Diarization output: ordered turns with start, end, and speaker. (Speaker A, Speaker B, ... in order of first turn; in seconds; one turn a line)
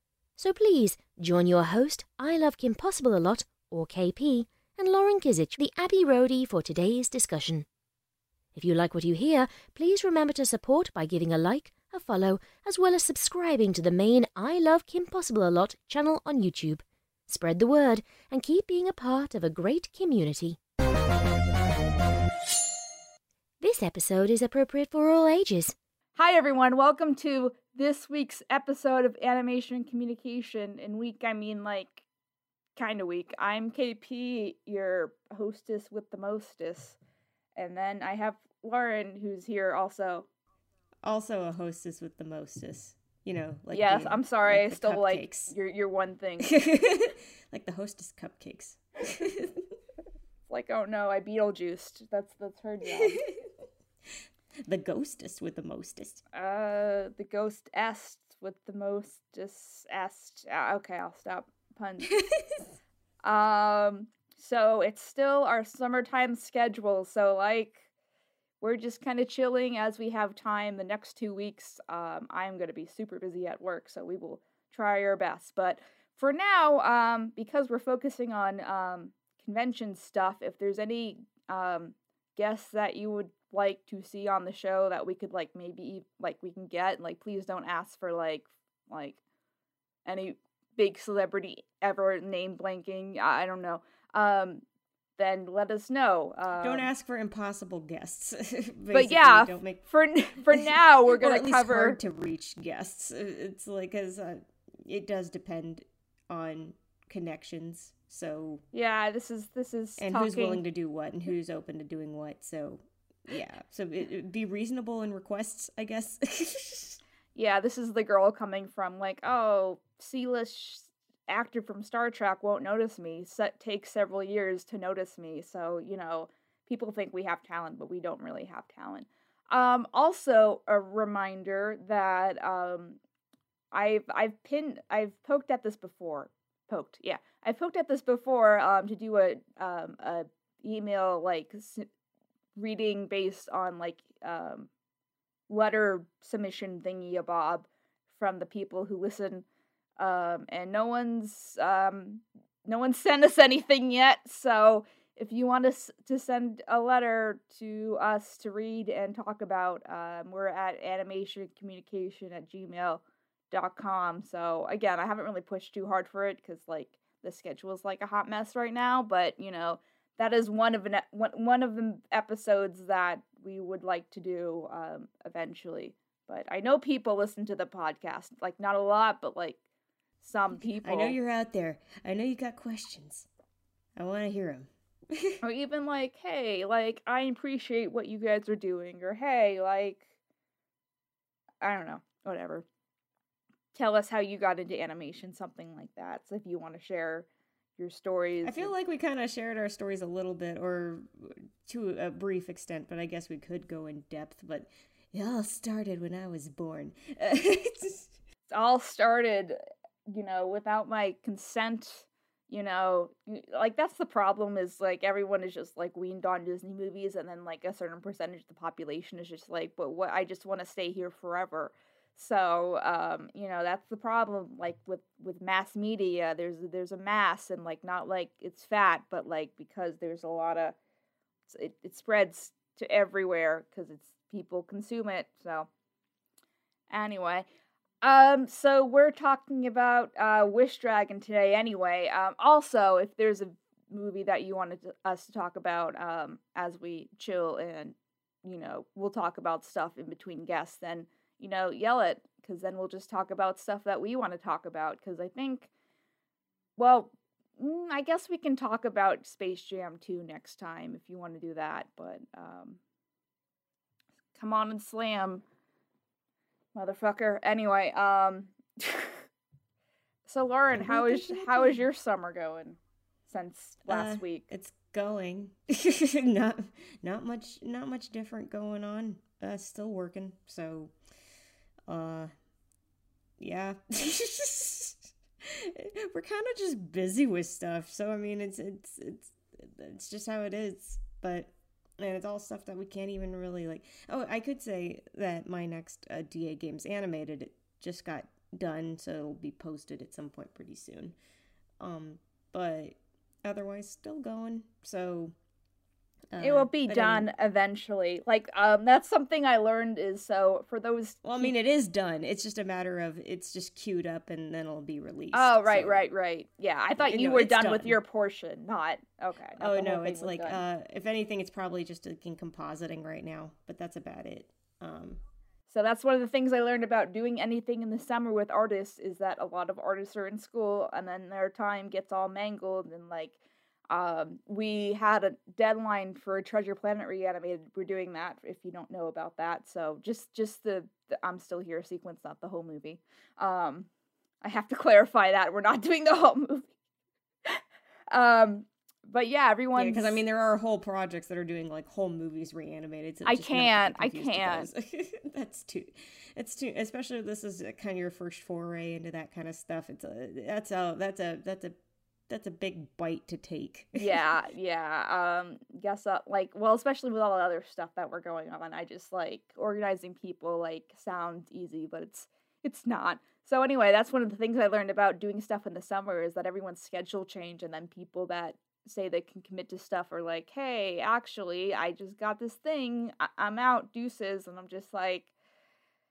Speaker A: 0.4-7.7
Speaker A: 8.5-20.6
Speaker A: 23.6-25.8
Speaker B: 26.2-32.0
Speaker B: 32.8-37.0
Speaker B: 37.6-40.3
Speaker C: 41.0-45.5
Speaker B: 43.7-46.5
Speaker C: 46.4-49.7
Speaker B: 50.5-53.2
Speaker C: 53.0-53.3
Speaker C: 54.7-56.2
Speaker B: 56.3-62.2
Speaker C: 62.1-62.6
Speaker B: 63.2-67.8
Speaker B: 68.6-89.2
Speaker B: 90.1-94.6
Speaker B: 95.2-96.9
Speaker C: 96.6-99.8
Speaker B: 98.9-102.0
Speaker C: 100.5-108.6
Speaker B: 108.7-110.6
Speaker C: 110.0-117.0
Speaker B: 117.3-133.0
Speaker B: 133.7-141.9
Speaker B: 142.6-144.7
Speaker B: 145.5-149.4
Speaker B: 150.0-179.6
Speaker B: 180.2-181.2
Speaker C: 180.8-183.3
Speaker C: 184.0-185.4
Speaker B: 185.4-190.1
Speaker B: 191.6-192.7
Speaker B: 193.7-198.7
Speaker C: 198.4-208.1
Speaker B: 208.5-230.8
Speaker B: 231.5-235.7
Speaker B: 236.9-237.5
Speaker B: 238.0-255.7
Speaker B: 256.8-262.8
Speaker B: 264.4-265.4
Speaker B: 266.7-269.3
Speaker B: 270.3-274.5
Speaker C: 270.7-271.8
Speaker C: 273.9-280.9
Speaker C: 281.9-282.3
Speaker C: 283.4-301.2
Speaker C: 301.8-305.3
Speaker C: 306.3-307.3
Speaker B: 306.4-311.5
Speaker C: 311.2-316.1
Speaker B: 315.3-320.6
Speaker C: 317.0-318.0
Speaker C: 319.6-325.2
Speaker B: 325.7-333.4
Speaker B: 333.9-343.9
Speaker B: 344.4-346.7
Speaker B: 347.4-350.2
Speaker C: 349.8-361.7
Speaker B: 353.2-354.7
Speaker C: 362.3-364.3
Speaker B: 363.9-385.3